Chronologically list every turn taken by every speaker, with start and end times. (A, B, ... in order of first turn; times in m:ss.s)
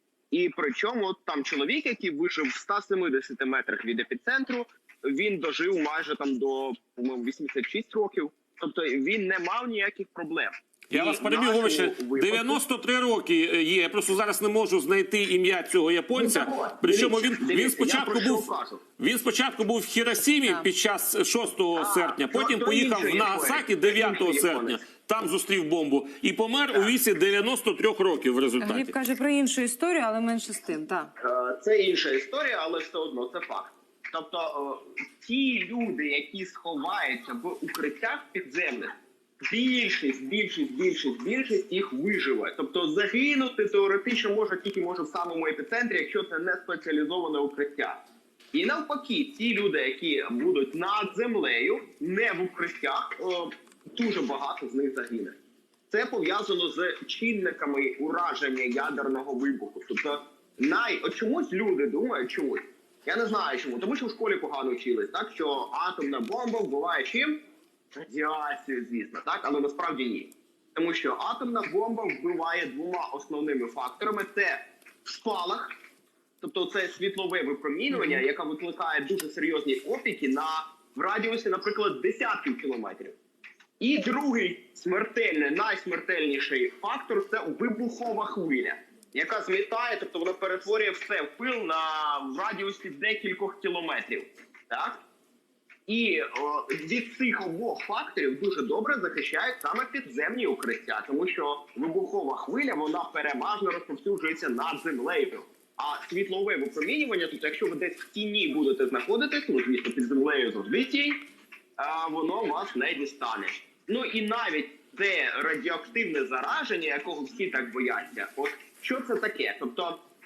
0:00.3-0:12.6 A
0:10.9-0:18.5 B
0:16.1-0:18.8 A
0:19.0-0:29.0 B
0:21.8-0:24.8 A
0:28.6-0:31.1 C
0:31.2-0:38.9 A
0:39.4-0:48.0 A
0:48.5-0:55.4 A
0:55.9-1:07.4 A
1:08.0-1:15.7 A
1:16.4-1:23.2 A
1:17.9-1:18.2 C
1:23.8-1:35.0 A
1:35.9-1:51.2 A
1:51.8-2:00.0 A